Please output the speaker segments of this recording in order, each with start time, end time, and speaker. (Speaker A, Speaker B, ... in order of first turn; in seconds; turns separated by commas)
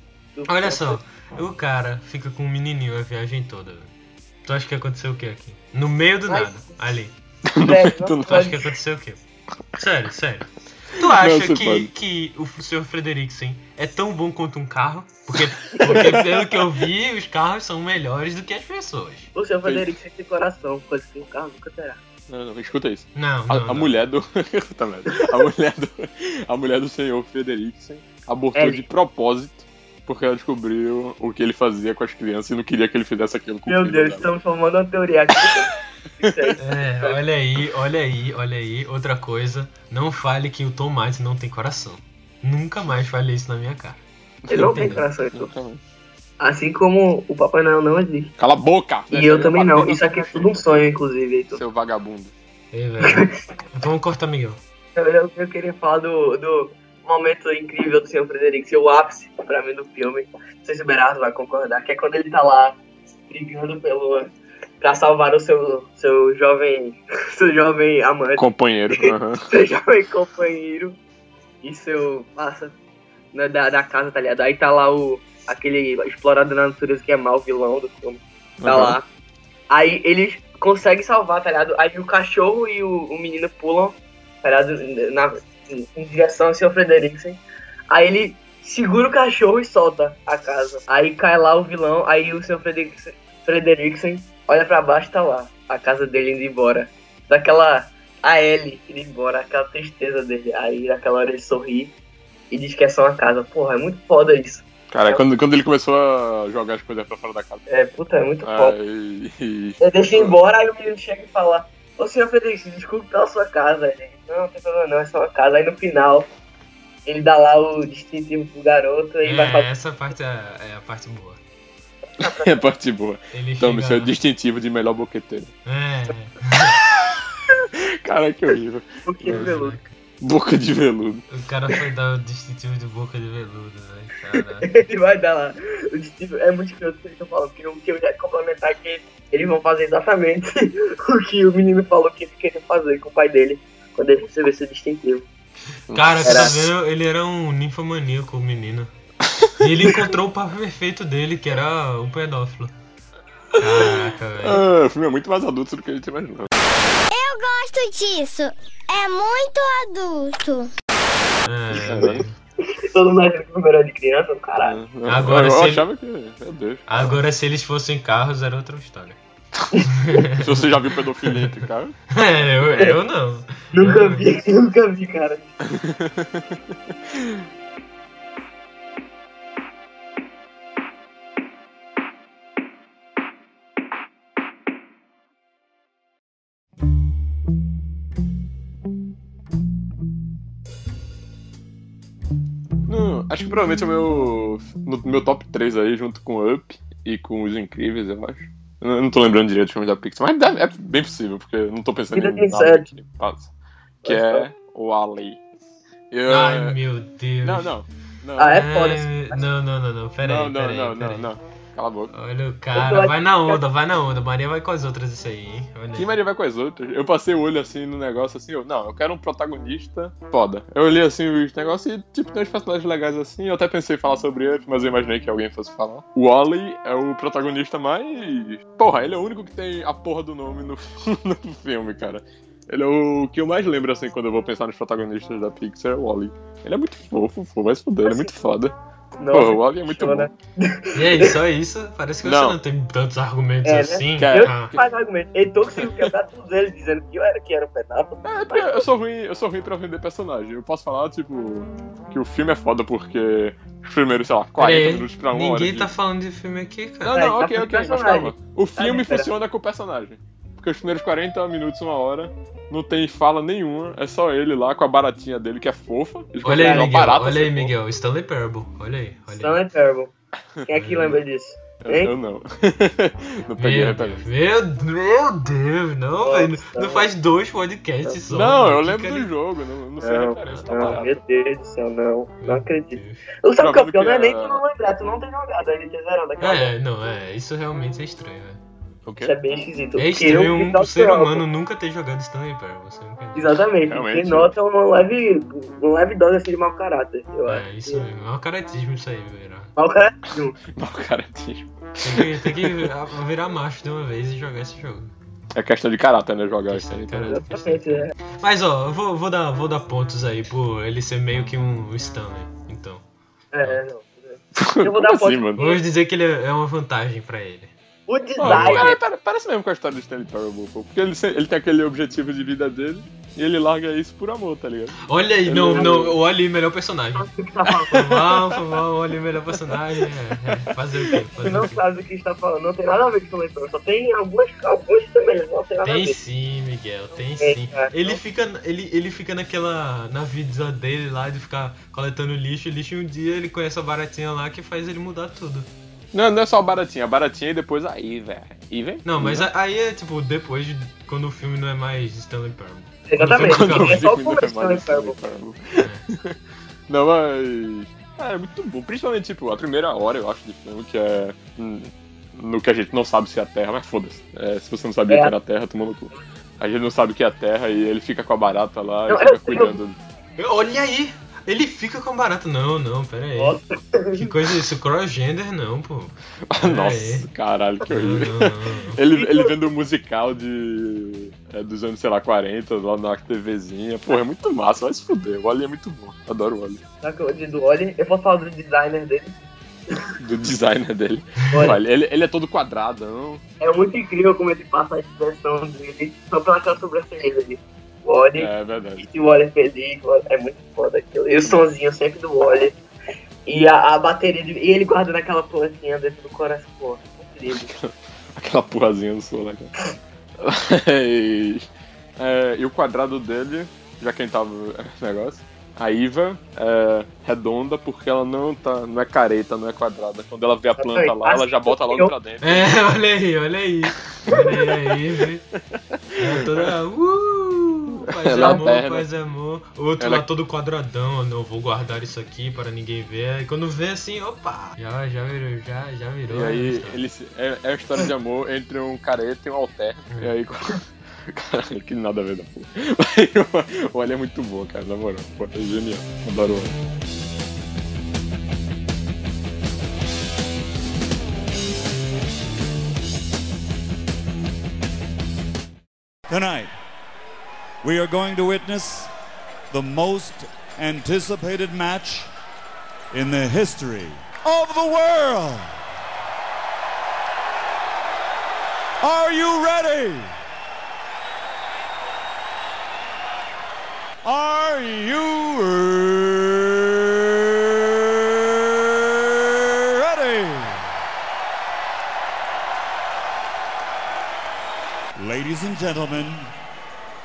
Speaker A: 0.4-1.0, Speaker B: 0.5-3.9, Speaker B: 4.5-7.1, Speaker A: 6.3-6.6, Speaker C: 7.5-8.4, Speaker A: 7.6-8.7, Speaker B: 8.2-9.2, Speaker B: 9.8-19.3, Speaker C: 11.0-11.9, Speaker A: 15.7-16.0, Speaker C: 15.8-16.6, Speaker A: 19.4-22.0, Speaker C: 22.3-34.4, Speaker B: 23.1-24.0, Speaker A: 28.6-28.9, Speaker A: 33.7-37.2, Speaker C: 36.2-36.6, Speaker B: 36.6-44.0, Speaker C: 44.5-44.8, Speaker A: 44.5-45.5, Speaker B: 44.6-45.0, Speaker C: 45.3-45.8, Speaker A: 46.4-48.3, Speaker C: 48.4-50.6, Speaker A: 49.1-51.6, Speaker C: 51.5-52.3, Speaker B: 52.7-54.6, Speaker A: 53.0-53.3, Speaker A: 54.9-62.8, Speaker A: 63.3-68.5, Speaker C: 68.4-69.5, Speaker A: 69.0-71.0, Speaker A: 71.6-72.8, Speaker A: 73.3-79.1, Speaker C: 78.6-79.0, Speaker A: 79.7-101.9, Speaker A: 102.5-105.2, Speaker C: 104.9-107.6, Speaker A: 107.7-108.8, Speaker C: 108.4-110.4, Speaker A: 109.8-116.3, Speaker A: 117.1-119.7, Speaker B: 119.2-121.4, Speaker A: 122.2-122.7, Speaker C: 122.2-125.5, Speaker B: 123.3-124.1, Speaker B: 125.7-126.8, Speaker C: 128.0-129.5, Speaker A: 129.1-129.8, Speaker B: 129.2-129.9, Speaker C: 130.2-131.2, Speaker B: 131.3-134.8, Speaker A: 134.6-145.3, Speaker C: 145.9-146.5, Speaker B: 145.9-148.9, Speaker A: 146.2-146.7, Speaker C: 149.3-149.5, Speaker B: 149.6-152.7, Speaker B: 153.6-154.6, Speaker C: 153.8-156.5, Speaker D: 157.1-160.7, Speaker B: 161.4-162.3, Speaker A: 161.8-164.8, Speaker C: 161.8-162.3, Speaker C: 164.6-167.1, Speaker B: 165.0-165.9, Speaker B: 166.9-169.2, Speaker B: 169.9-170.7, Speaker C: 170.4-172.9, Speaker B: 172.1-174.3, Speaker A: 173.7-175.6, Speaker C: 175.7-177.4, Speaker C: 192.9-203.5, Speaker A: 202.1-202.9, Speaker A: 204.0-204.5, Speaker C: 204.0-205.4, Speaker C: 206.1-206.8, Speaker B: 206.3-207.7, Speaker C: 207.4-208.6, Speaker A: 208.4-209.5, Speaker B: 208.4-211.3, Speaker C: 210.2-212.1, Speaker B: 212.1-216.1, Speaker A: 212.8-213.6, Speaker C: 215.9-238.8, Speaker A: 238.0-238.3, Speaker A: 239.2-241.3, Speaker C: 239.3-240.3, Speaker B: 240.9-244.8, Speaker C: 242.2-242.6, Speaker A: 243.6-248.9, Speaker C: 244.1-244.8, Speaker C: 248.2-255.9, Speaker B: 254.6-257.2, Speaker C: 257.1-267.7, Speaker A: 257.1-259.3, Speaker B: 266.4-269.6, Speaker A: 266.5-266.9, Speaker A: 269.4-270.1, Speaker A: 270.6-272.1, Speaker B: 270.8-271.2, Speaker C: 271.8-274.3, Speaker B: 273.6-279.3, Speaker A: 276.2-277.1, Speaker C: 278.1-281.2, Speaker A: 280.0-286.7, Speaker B: 280.4-281.0, Speaker B: 282.4-283.2, Speaker C: 283.6-284.6, Speaker B: 286.4-288.6, Speaker C: 289.1-289.4, Speaker A: 289.2-291.4, Speaker B: 290.0-293.6, Speaker A: 293.4-298.1, Speaker C: 293.9-294.5, Speaker B: 297.5-299.7, Speaker A: 299.8-300.6, Speaker C: 300.7-302.9, Speaker B: 302.0-305.1, Speaker C: 305.6-307.4, Speaker B: 306.7-313.0, Speaker A: 307.3-308.1, Speaker A: 313.5-315.8, Speaker C: 314.6-315.6, Speaker B: 315.6-317.7, Speaker A: 318.1-319.0, Speaker C: 318.4-326.1, Speaker B: 318.4-318.9, Speaker B: 325.1-327.3, Speaker A: 325.8-326.0, Speaker A: 327.1-328.0, Speaker B: 327.9-331.8, Speaker C: 327.9-328.6, Speaker C: 329.6-330.6, Speaker A: 331.1-336.2, Speaker B: 335.8-345.7, Speaker A: 337.1-338.2, Speaker C: 346.1-349.5, Speaker B: 349.1-354.1, Speaker A: 353.1-355.2, Speaker C: 353.4-356.4, Speaker C: 356.9-370.0, Speaker A: 369.1-369.8, Speaker B: 370.4-373.6, Speaker A: 373.4-374.3, Speaker B: 374.2-377.3, Speaker C: 376.5-386.8, Speaker B: 377.9-379.0, Speaker A: 379.1-379.5, Speaker A: 387.0-389.4, Speaker C: 390.2-393.4, Speaker A: 391.5-391.8, Speaker A: 393.6-402.8, Speaker C: 398.4-399.1, Speaker A: 403.4-407.7, Speaker C: 407.6-409.7, Speaker C: 410.4-422.8, Speaker A: 420.8-422.1, Speaker B: 422.4-425.4, Speaker C: 424.1-424.8, Speaker C: 425.6-426.8, Speaker B: 426.2-437.0, Speaker C: 428.1-429.1, Speaker A: 428.4-428.6, Speaker C: 430.0-430.3, Speaker C: 436.3-446.8, Speaker E: 456.3-456.7, Speaker E: 457.8-459.1, Speaker E: 459.7-462.3, Speaker E: 463.1-465.8, Speaker E: 469.0-470.4, Speaker E: 474.2-476.8, Speaker E: 479.8-480.8, Speaker E: 485.2-486.5